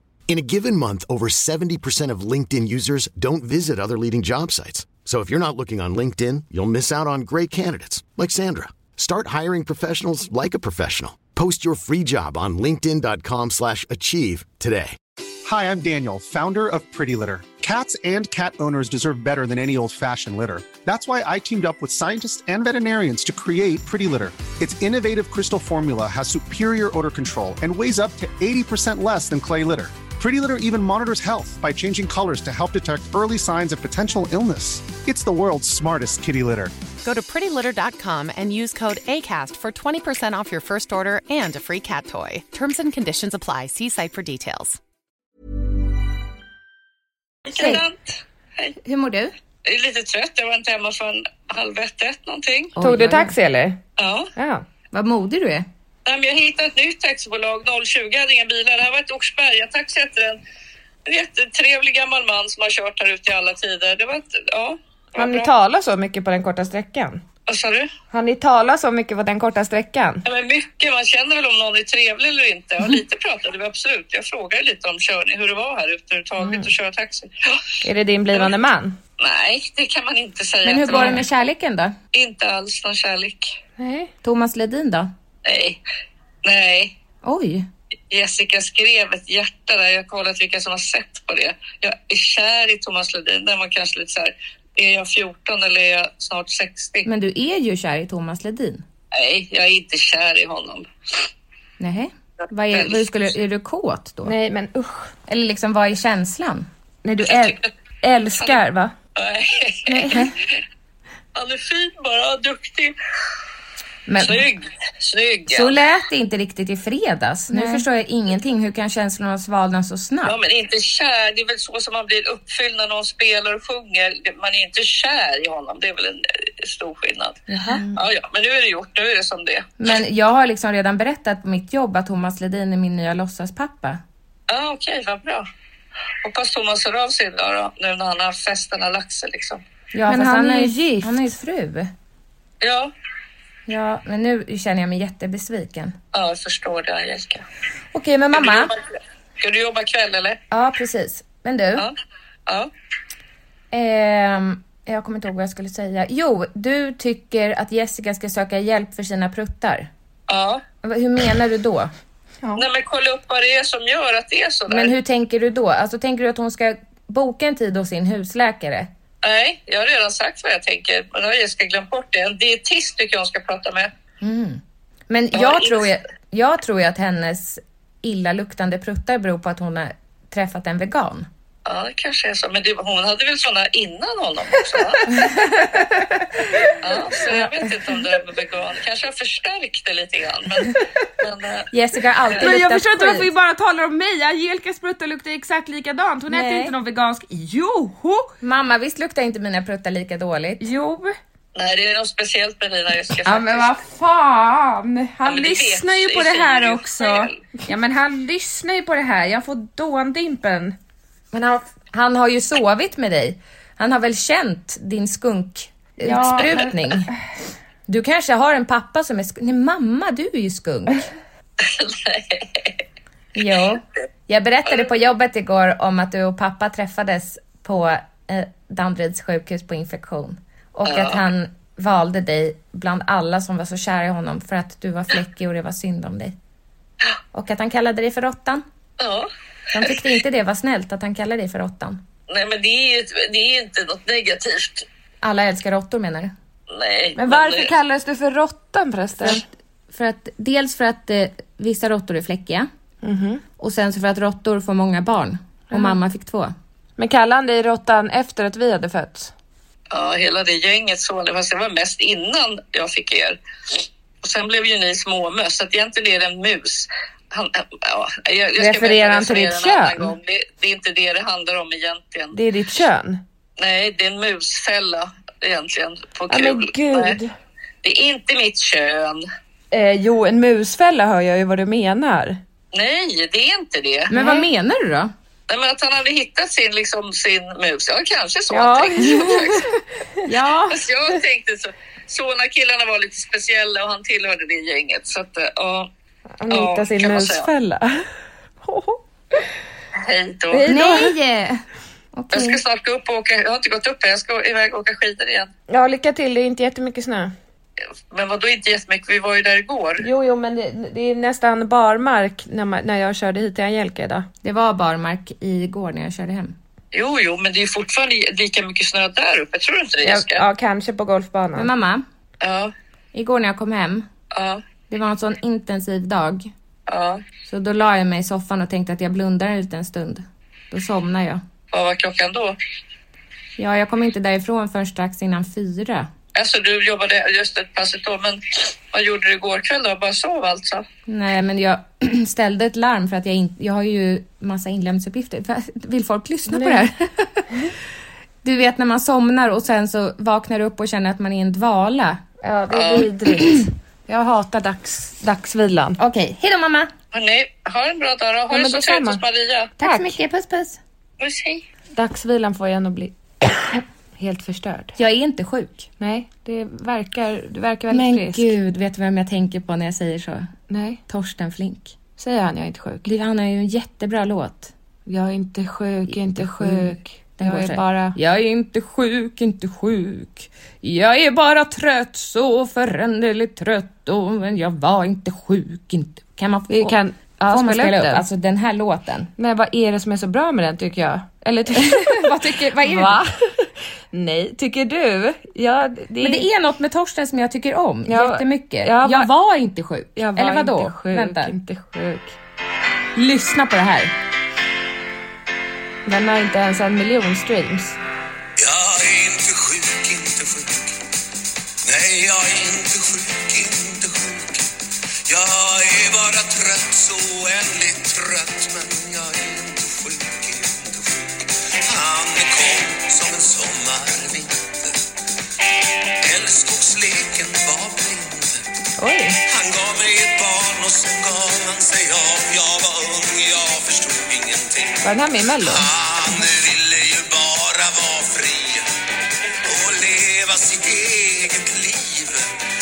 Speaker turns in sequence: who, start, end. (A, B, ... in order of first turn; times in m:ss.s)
0:00.3-0:15.0 A
0:15.4-0:36.8 B
0:37.0-0:44.8 C
0:47.5-0:48.7 D
0:47.6-0:47.8 E
0:48.8-0:49.3 E
0:49.6-0:52.7 D
0:52.8-0:53.3 E
0:52.8-0:53.8 F
0:54.0-0:54.3 D
0:54.4-0:54.6 F
0:54.9-0:55.7 E
0:56.0-1:00.4 D
1:01.0-1:05.5 D
1:05.2-1:07.2 F
1:07.5-1:07.9 D
1:08.1-1:10.2 F
1:10.2-1:17.6 D
1:16.4-1:16.7 F
1:17.8-1:19.0 F
1:19.2-1:21.2 D
1:20.6-1:22.0 E
1:20.9-1:21.2 F
1:22.1-1:23.6 D
1:23.8-1:24.1 F
1:24.2-1:25.1 E
1:25.4-1:25.8 D
1:26.4-1:26.9 D
1:27.2-1:27.7 E
1:28.1-1:37.1 D
1:37.0-1:38.8 E
1:39.1-1:40.9 D
1:41.8-1:44.3 E
1:42.7-1:43.0 D
1:44.2-1:45.1 F
1:45.3-1:46.7 E
1:47.0-1:48.9 F
1:47.2-1:47.7 D
1:49.2-1:50.3 D
1:49.9-1:50.3 E
1:51.3-1:52.9 D
1:54.1-1:54.4 E
1:54.2-1:55.8 D
1:55.5-2:00.4 E
1:57.5-1:57.8 F
2:00.2-2:07.4 D
2:07.5-2:07.9 E
2:07.6-2:08.0 F
2:07.9-2:09.7 D
2:09.8-2:14.0 E
2:14.5-2:15.4 D
2:16.2-2:19.6 D
2:19.9-2:21.9 E
2:20.1-2:21.4 F
2:22.6-2:22.9 D
2:23.7-2:26.0 E
2:26.1-2:27.4 D
2:27.9-2:28.7 E
2:28.3-2:30.4 D
2:30.5-2:31.9 E
2:33.7-2:39.9 E
2:40.3-2:40.6 D
2:40.8-2:41.9 E
2:42.6-2:44.9 D
2:44.7-2:48.9 E
2:49.2-2:53.9 D
2:54.2-3:01.3 E
2:55.3-2:55.9 D
3:01.6-3:05.3 D
3:05.1-3:05.8 F
3:06.5-3:06.8 F
3:06.8-3:11.7 D
3:11.7-3:13.3 E
3:12.4-3:18.3 F
3:16.3-3:16.7 E
3:18.4-3:20.6 E
3:20.6-3:21.1 F
3:21.5-3:23.8 D
3:23.2-3:30.8 F
3:25.2-3:27.4 D
3:31.3-3:37.1 E
3:36.0-3:36.7 F
3:37.9-3:41.1 E
3:41.6-3:42.7 D
3:43.3-3:56.4 E
3:50.8-3:51.2 D
3:57.3-3:58.6 E
3:59.0-4:00.0 D
3:59.7-4:02.0 E
4:02.3-4:04.9 D
4:05.2-4:06.3 E
4:06.7-4:07.7 D
4:07.2-4:09.4 F
4:09.2-4:12.7 E
4:13.0-4:13.4 F
4:13.6-4:16.5 E
4:15.7-4:16.0 F
4:17.0-4:19.3 F
4:19.9-4:23.4 D
4:24.2-4:32.4 D
4:28.6-4:30.1 F
4:32.3-4:33.2 F
4:33.6-4:37.2 D
4:36.3-4:37.3 F
4:37.8-4:39.2 D
4:39.7-4:42.4 F
4:42.7-4:44.1 D
4:44.1-4:45.1 E
4:44.1-4:44.5 F
4:45.5-4:49.7 D
4:48.5-4:49.4 F
4:49.0-4:49.5 E
4:50.3-4:50.7 E
4:50.7-4:55.9 D
4:56.4-4:58.0 F
4:56.5-4:57.5 D
4:58.6-4:59.5 F
5:00.0-5:00.7 D
5:00.5-5:01.1 F
5:00.7-5:01.6 E
5:02.1-5:02.6 E
5:02.3-5:05.5 D
5:05.7-5:07.3 F
5:08.1-5:10.0 D
5:10.0-5:14.3 F
5:14.4-5:16.6 E
5:16.9-5:20.4 D
5:20.0-5:21.7 F
5:21.5-5:22.0 E
5:22.4-5:22.7 D
5:23.1-5:24.1 E
5:24.3-5:24.6 D
5:24.9-5:26.5 E
5:26.9-5:27.2 D
5:27.5-5:31.4 E
5:31.7-5:32.6 D
5:33.6-5:36.1 E
5:36.3-5:40.8 D
5:41.1-5:47.5 E
5:46.5-5:46.9 F
5:48.4-5:52.2 E
5:52.4-5:56.0 F
5:52.7-5:53.1 D
5:53.4-5:53.7 E
5:56.0-5:56.9 E
5:57.1-5:59.7 D
5:58.5-5:59.2 F
5:59.8-6:00.8 E
5:59.8-6:00.2 F
6:01.2-6:01.6 D
6:01.9-6:03.1 F
6:03.7-6:05.0 F
6:05.0-6:05.9 E
6:06.0-6:08.5 F
6:07.9-6:10.5 E
6:10.7-6:11.0 F
6:11.1-6:11.9 E
6:12.2-6:13.1 F
6:13.0-6:14.7 E
6:15.0-6:18.2 F
6:16.1-6:29.3 E
6:26.7-6:28.2 F
6:29.4-6:36.4 F
6:31.7-6:33.2 E
6:36.2-6:41.5 E
6:38.1-6:39.3 F
6:40.2-6:42.4 F
6:43.1-6:44.1 E
6:46.0-6:48.0 F
6:48.6-6:51.0 G
6:51.8-6:54.7 G
6:55.3-7:04.9 G
7:06.2-7:08.6 G
7:09.0-7:09.4 F
7:09.5-7:15.0 G
7:15.0-7:15.8 F
7:15.6-7:18.9 G
7:19.6-7:22.5 G